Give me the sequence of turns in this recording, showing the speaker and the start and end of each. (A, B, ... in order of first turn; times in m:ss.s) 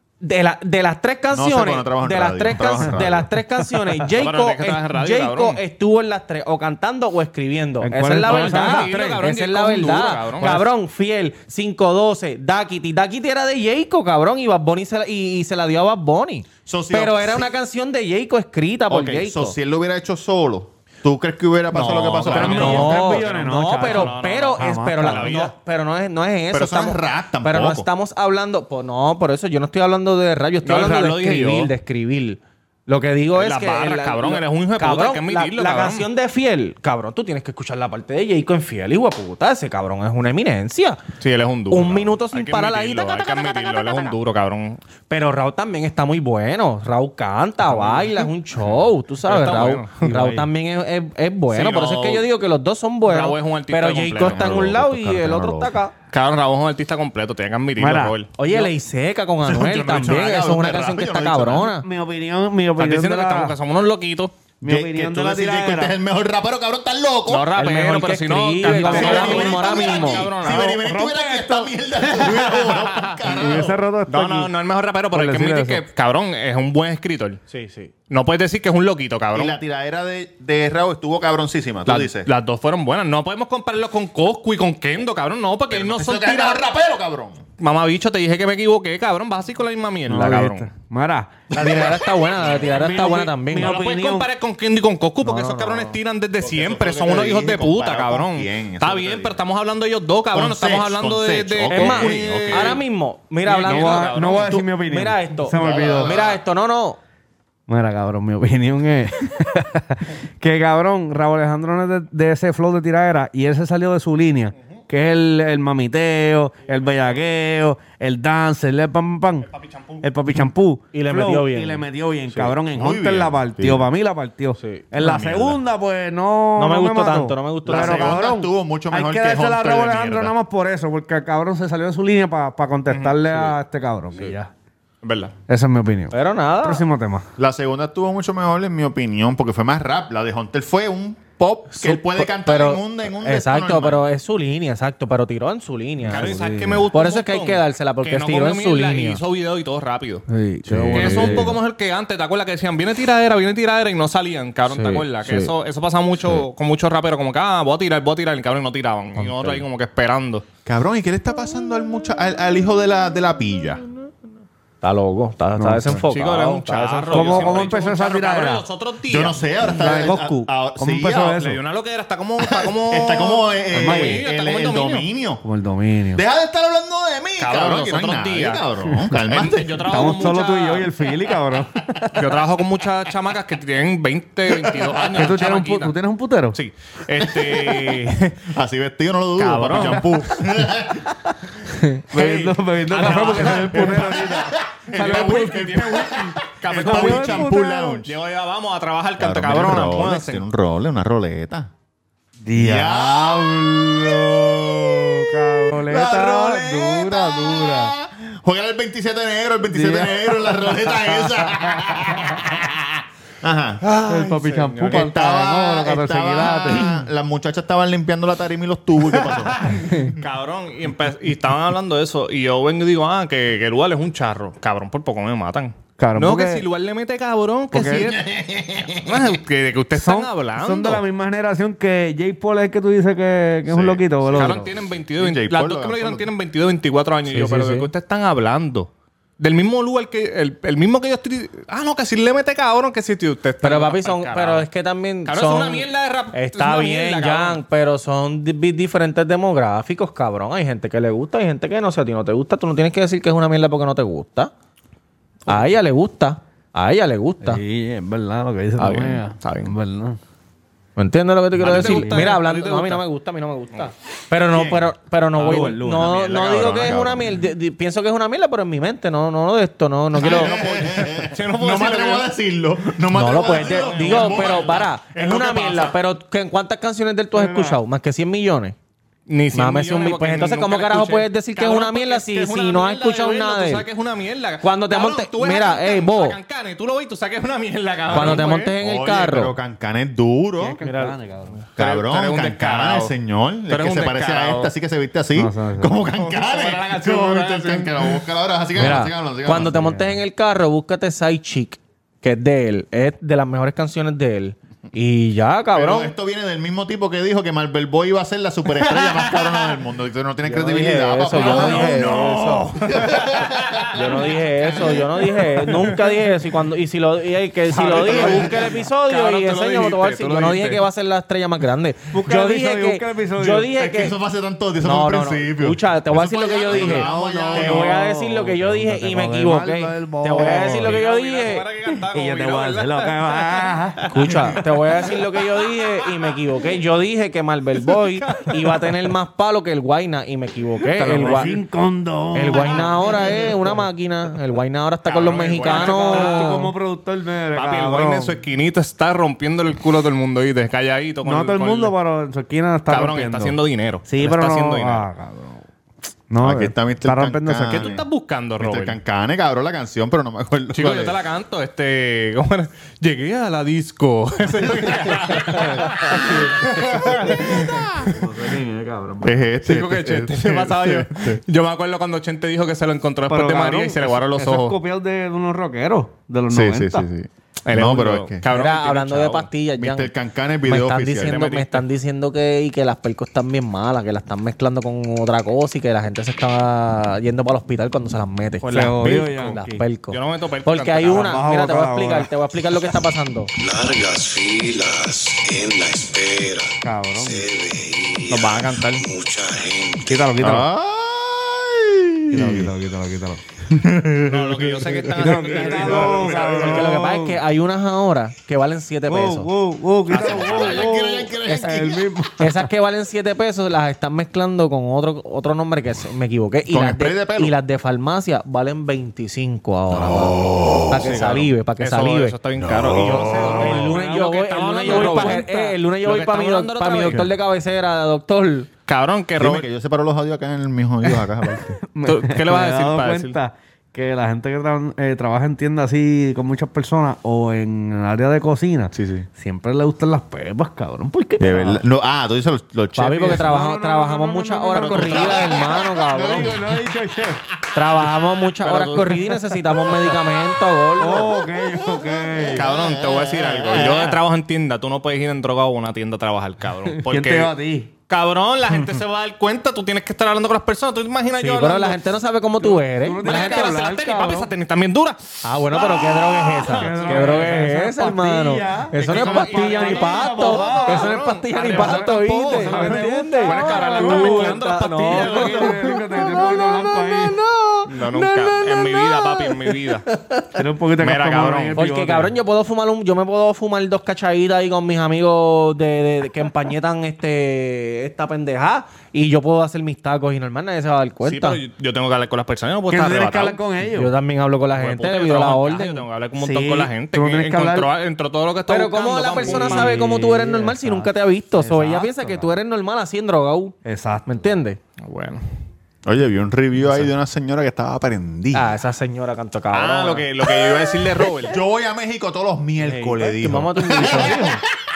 0:00.2-0:19.5 A
0:01.3-0:03.3 B
0:03.6-0:04.0 C
0:04.1-0:05.6 D
0:07.8-0:09.1 C
0:08.2-0:10.7 D
0:16.6-0:17.5 B
0:18.9-0:23.0 B
0:21.7-0:25.3 C
0:21.7-0:25.5 D
0:22.4-0:41.0 A
0:26.5-0:27.9 B
0:30.6-0:31.7 D
0:33.3-0:36.1 D
0:41.2-0:44.8 D
0:41.7-0:44.2 A
0:45.1-0:55.9 A
0:47.6-0:50.0 D
0:50.0-0:50.5 C
0:51.5-0:52.3 D
0:53.0-0:54.5 D
0:54.2-0:55.8 B
0:56.1-0:58.6 D
0:57.8-0:58.1 C
0:58.4-1:01.8 A
0:59.4-1:01.7 B
1:01.8-1:03.5 C
1:02.8-1:04.3 D
1:04.6-1:05.9 C
1:04.6-1:07.5 B
1:07.3-1:10.8 D
1:07.5-1:10.3 A
1:08.6-1:09.5 C
1:08.8-1:13.8 B
1:10.4-1:11.7 C
1:12.5-1:13.2 D
1:13.2-1:14.5 C
1:14.1-1:17.4 D
1:15.1-1:15.8 C
1:17.5-1:17.9 A
1:18.1-1:19.6 D
1:19.3-1:22.3 B
1:21.8-1:26.6 D
1:25.7-1:27.4 B
1:27.6-1:30.7 D
1:30.1-1:31.4 C
1:31.5-1:32.6 B
1:31.5-1:33.9 A
1:32.7-1:34.3 C
1:33.0-1:42.8 D
1:35.2-1:35.9 C
1:36.4-1:39.4 B
1:40.3-1:42.8 B
1:41.7-1:47.0 A
1:43.4-1:44.6 D
1:43.6-1:46.1 C
1:45.5-1:46.4 B
1:47.7-1:59.5 C
1:59.5-2:00.0 D
2:00.0-2:14.5 C
2:00.9-2:01.8 A
2:02.3-2:03.9 B
2:05.0-2:05.6 B
2:06.6-2:08.2 A
2:07.6-2:10.3 B
2:12.9-2:13.3 D
2:15.0-2:15.3 D
2:15.5-2:17.3 C
2:16.1-2:16.8 A
2:17.4-2:24.0 B
2:21.7-2:26.3 A
2:26.1-2:26.9 C
2:26.1-2:30.2 D
2:26.9-2:29.2 A
2:30.3-2:31.6 C
2:30.7-2:31.4 A
2:30.9-2:40.4 D
2:34.7-2:35.5 A
2:39.2-2:39.6 A
2:40.6-2:43.8 B
2:44.8-2:47.6 A
2:45.6-2:46.0 C
2:46.1-2:49.4 D
2:47.1-2:48.6 C
2:49.1-2:51.4 B
2:49.6-2:51.6 C
2:51.4-2:55.0 D
2:52.4-2:55.4 B
2:53.7-2:54.2 C
2:55.4-2:56.2 C
2:56.1-3:00.0 B
2:57.4-3:01.0 D
2:59.9-3:02.2 C
3:02.1-3:05.9 D
3:05.1-3:06.6 C
3:06.5-3:08.4 D
3:07.2-3:11.1 B
3:09.4-3:10.3 D
3:11.7-3:18.0 C
3:12.1-3:14.2 D
3:13.5-3:18.1 B
3:14.9-3:20.4 D
3:19.2-3:21.7 B
3:22.4-3:27.9 C
3:22.6-3:40.0 B
3:29.7-3:32.0 C
3:34.0-3:36.9 C
3:34.4-3:35.1 D
3:40.1-3:48.2 D
3:46.0-3:46.6 C
3:47.7-3:48.1 C
3:47.9-3:49.2 B
3:49.0-3:51.0 D
3:49.9-3:54.7 C
3:53.7-3:54.6 B
3:54.3-4:04.7 D
3:55.2-3:56.3 B
3:57.3-3:57.8 A
3:57.4-3:57.8 C
4:03.6-4:14.5 A
4:05.2-4:07.6 D
4:15.5-4:17.6 A
4:17.4-4:20.2 C
4:18.8-4:19.2 A
4:19.4-4:19.7 D
4:21.0-4:30.9 A
4:21.6-4:23.0 D
4:21.6-4:22.4 C
4:24.5-4:24.8 B
4:25.3-4:26.2 C
4:26.0-4:27.5 B
4:30.1-4:35.8 B
4:30.2-4:32.3 D
4:33.1-4:38.7 A
4:33.4-4:35.9 D
4:37.3-4:37.8 C
4:39.3-4:48.7 D
4:39.5-4:43.8 A
4:44.6-4:46.4 A
4:48.1-4:50.8 B
4:48.1-4:49.5 A
4:50.6-4:51.6 C
4:50.8-4:51.2 A
4:51.8-4:53.1 D
4:51.8-4:59.8 B
4:53.7-4:54.7 D
4:55.3-4:56.0 C
4:56.2-4:58.2 D
4:58.7-5:06.1 A
4:59.6-5:00.2 C
5:05.7-5:14.0 B
5:10.4-5:12.7 A
5:11.3-5:12.1 D
5:11.5-5:12.0 C
5:13.3-5:13.9 D
5:13.9-5:24.2 A
5:17.8-5:18.4 C
5:17.8-5:20.8 D
5:17.9-5:18.6 B
5:22.1-5:23.7 C
5:23.7-5:28.0 B
5:24.8-5:31.6 A
5:26.7-5:31.0 C
5:30.3-5:33.8 D
5:31.8-5:34.2 C
5:34.1-5:41.6 A
5:38.3-5:38.7 D
5:41.0-5:43.8 C
5:42.3-5:46.7 A
5:42.7-5:43.4 D
5:45.0-5:46.6 D
5:45.6-5:48.4 C
5:47.5-5:51.9 D
5:51.2-5:55.6 C
5:52.9-5:55.1 D
5:56.3-5:57.9 C
5:56.4-5:58.0 B
5:57.7-5:59.0 D
5:58.6-6:01.2 B
6:00.7-6:08.1 D
6:05.3-6:09.3 C
6:09.2-6:11.4 B
6:09.6-6:14.8 D
6:13.3-6:17.1 C
6:16.5-6:18.4 B
6:17.6-6:19.5 D
6:18.5-6:20.1 A
6:19.8-6:21.5 B
6:20.6-6:33.5 A
6:21.2-6:21.8 D
6:28.6-6:29.8 C
6:28.7-6:29.1 D
6:30.1-6:31.4 D
6:31.1-6:32.3 C
6:33.6-6:40.3 E
6:36.8-6:37.4 C
6:38.3-6:39.0 D
6:40.0-6:40.7 C
6:40.4-6:42.7 B
6:42.3-6:43.4 C
6:43.7-6:44.9 B
6:44.2-6:46.7 D
6:45.1-6:47.4 C
6:45.6-6:46.9 B
6:45.8-6:49.5 A
6:49.1-6:52.7 C
6:50.1-6:52.2 B
6:52.4-7:02.4 A
6:56.6-6:57.6 B
7:00.0-7:00.8 B
7:01.0-7:07.3 D
7:02.6-7:03.7 B
7:03.2-7:08.7 A
7:03.5-7:05.8 C
7:08.9-7:09.6 D
7:09.4-7:11.8 B
7:11.8-7:21.8 C
7:12.0-7:13.3 D
7:18.9-7:19.3 B
7:21.4-7:23.5 B
7:23.0-7:26.6 A
7:23.2-7:27.4 C
7:24.8-7:26.6 B
7:27.7-7:31.3 A
7:28.6-7:29.8 D
7:31.0-7:32.7 C
7:32.4-7:34.2 B
7:32.5-7:37.5 D
7:36.9-7:37.9 C
7:38.1-7:42.0 D
7:41.4-7:43.9 A
7:43.0-7:44.5 C
7:43.2-7:47.7 D
7:45.4-8:00.5 A
7:46.6-7:57.4 C
7:48.9-7:56.0 D
7:57.9-8:00.1 D
8:00.5-8:02.4 C
8:01.0-8:01.8 D
8:01.8-8:11.6 A
8:11.2-8:13.6 D
8:12.9-8:14.1 C
8:13.9-8:16.0 A
8:14.7-8:20.0 D
8:16.4-8:17.9 C
8:18.7-8:23.7 A
8:19.4-8:22.5 C
8:23.8-8:24.5 C
8:24.2-8:24.8 A
8:25.0-8:25.4 D
8:26.0-8:28.8 B
8:28.5-8:30.2 A
8:29.7-8:31.6 D
8:30.6-8:34.6 B
8:32.8-8:34.6 A
8:34.1-8:34.5 C